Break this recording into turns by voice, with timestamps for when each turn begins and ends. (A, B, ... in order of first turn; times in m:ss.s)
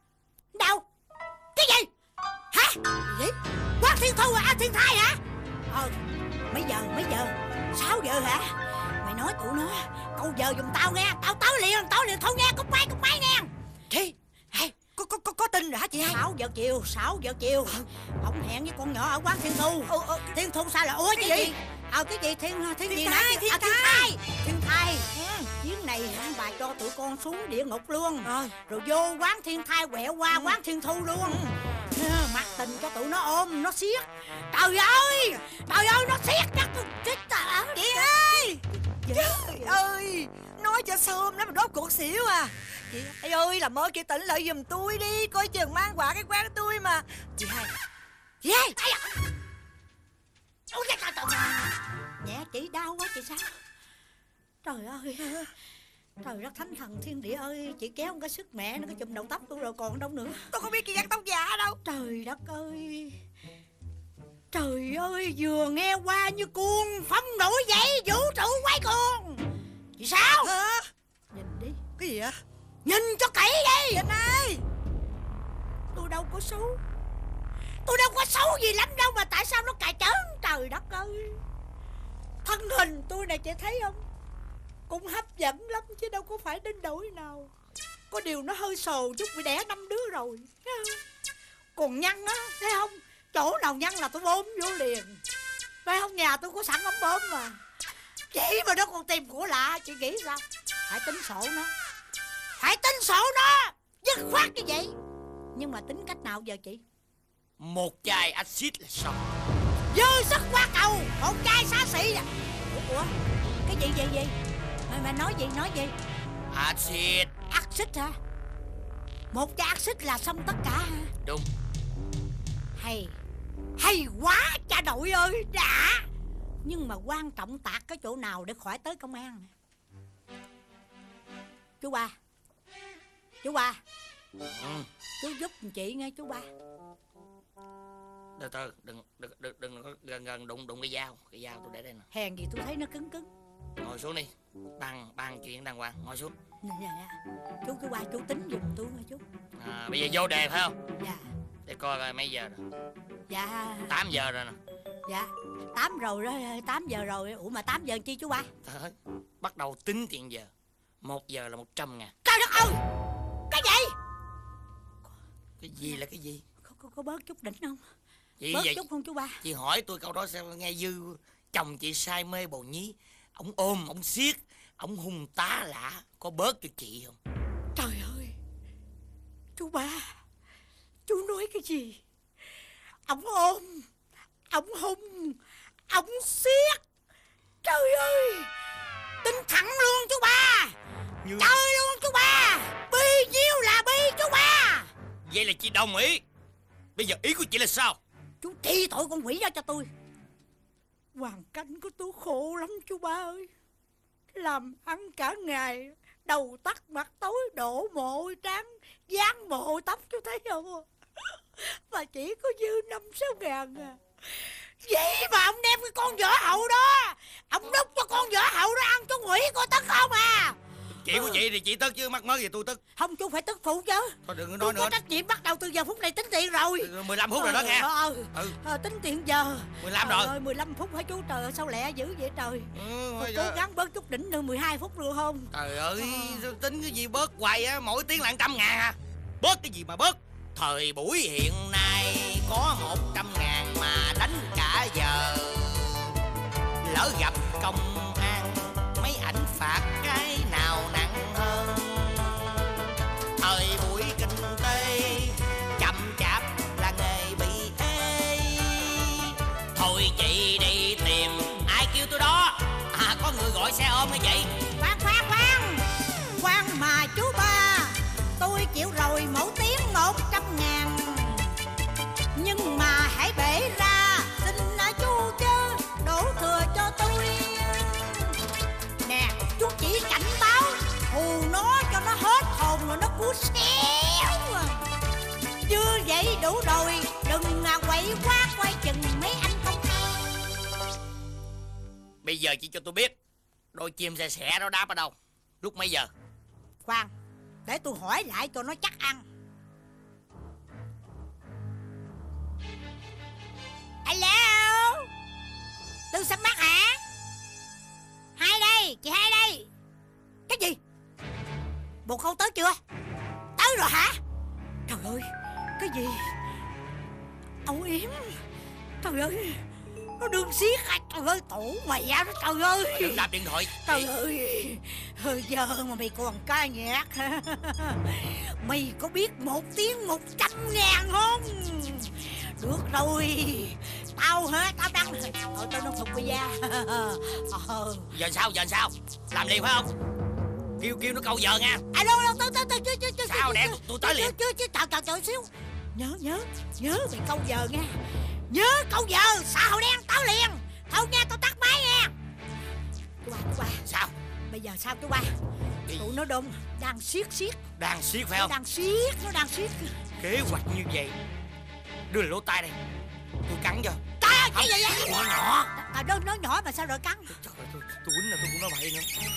0:00.5-0:00.8 A
0:01.6-0:01.9 A
0:02.5-0:05.9 A
0:06.5-0:13.5 A
0:13.9-0:16.2 B
0:16.0-0:25.1 A
0:19.9-0:20.4 B
0:21.1-0:21.6 B
0:22.9-0:24.1 B
0:25.1-0:25.5 B
0:25.6-0:31.4 A
0:28.2-0:28.5 B
0:30.3-0:30.6 B
0:31.9-0:38.5 A
0:37.7-0:47.7 B
0:39.0-0:39.7 A
0:48.4-0:48.7 B
0:48.8-0:49.1 A
0:50.7-0:51.7 A
0:52.2-0:53.5 A
0:54.6-0:55.4 A
0:56.2-1:00.4 A
1:00.5-1:01.8 B
1:01.8-1:03.2 A
1:04.5-1:09.4 A
1:10.0-1:10.5 A
1:10.4-1:10.9 B
1:11.3-1:11.8 A
1:12.0-1:12.4 B
1:12.8-1:14.0 A
1:13.9-1:14.6 B
1:15.9-1:16.8 A
1:17.8-1:21.4 A
1:22.4-1:24.0 A
1:24.9-1:27.5 A
1:28.1-1:31.0 A
1:31.8-1:35.2 A
1:35.8-1:37.6 A
1:38.3-1:41.7 A
1:42.6-1:44.9 A
1:45.5-1:46.8 A
1:47.6-1:49.2 C
1:49.9-1:53.1 A
1:53.6-1:54.3 A
1:54.9-1:55.9 A
1:56.5-1:57.3 C
1:57.5-1:58.2 A
1:59.3-2:01.1 A
2:01.2-2:01.5 C
2:02.8-2:03.2 A
2:03.8-2:06.1 A
2:06.6-2:09.5 A
2:11.8-2:12.1 A
2:13.4-2:13.8 A
2:14.5-2:14.9 C
2:15.2-2:16.5 A
2:18.4-2:22.1 C
2:22.1-2:23.3 A
2:23.8-2:26.3 C
2:26.6-2:29.2 A
2:29.6-2:30.8 C
2:31.6-2:32.6 C
2:33.3-2:34.0 A
2:33.9-2:34.6 C
2:35.1-2:38.5 A
2:38.6-2:40.5 C
2:41.0-2:42.1 C
2:42.2-2:42.8 A
2:43.5-2:43.9 A
2:45.6-2:46.4 C
2:46.6-2:47.8 A
2:48.4-2:48.8 C
2:48.5-2:49.4 A
2:49.4-2:57.2 C
2:57.7-2:58.3 A
2:59.6-3:00.1 A
3:01.1-3:02.0 A
3:03.1-3:03.8 A
3:04.5-3:05.4 A
3:05.9-3:06.8 A
3:07.6-3:08.5 A
3:09.2-3:10.7 A
3:11.2-3:11.6 C
3:11.4-3:14.9 A
3:15.3-3:16.2 C
3:17.0-3:18.0 C
3:18.4-3:19.9 A
3:21.2-3:23.5 A
3:24.3-3:30.8 A
3:31.6-3:40.6 A
3:41.0-3:42.8 C
3:41.1-3:41.4 A
3:43.0-3:56.4 A
3:44.2-3:45.0 C
3:46.8-3:48.6 C
3:49.8-3:50.3 C
3:52.7-3:53.6 C
3:55.5-4:06.2 C
4:06.8-4:12.8 C
4:13.4-4:24.5 C
4:24.8-4:31.5 A
4:32.3-4:38.3 A
4:39.0-4:44.8 A
4:45.6-4:50.3 A
4:52.2-4:53.1 C
4:53.7-4:56.1 C
4:56.8-4:57.1 A
4:57.6-4:59.2 A
5:04.0-5:05.1 A
5:06.1-5:07.0 A
5:08.4-5:09.7 A
5:10.5-5:10.8 A
5:12.0-5:12.8 A
5:13.6-5:14.2 A
5:14.9-5:16.3 A
5:17.6-5:18.4 A
5:19.0-5:19.6 A
5:20.2-5:23.3 A
5:22.9-5:24.1 C
5:23.8-5:38.1 A
5:38.1-5:39.9 C
5:40.8-5:41.8 C
5:41.9-5:47.9 A
5:43.2-5:44.3 C
5:48.5-5:52.1 A
5:53.2-5:53.8 A
5:53.8-5:54.1 C
5:54.5-5:55.3 A
5:55.9-5:56.1 C
5:56.0-5:57.6 A
5:57.8-5:58.5 C
5:58.3-5:59.9 A
6:00.2-6:01.2 C
6:02.1-6:02.8 C
6:03.5-6:05.7 C
6:04.2-6:05.2 A
6:05.7-6:07.4 A
6:07.3-6:09.1 C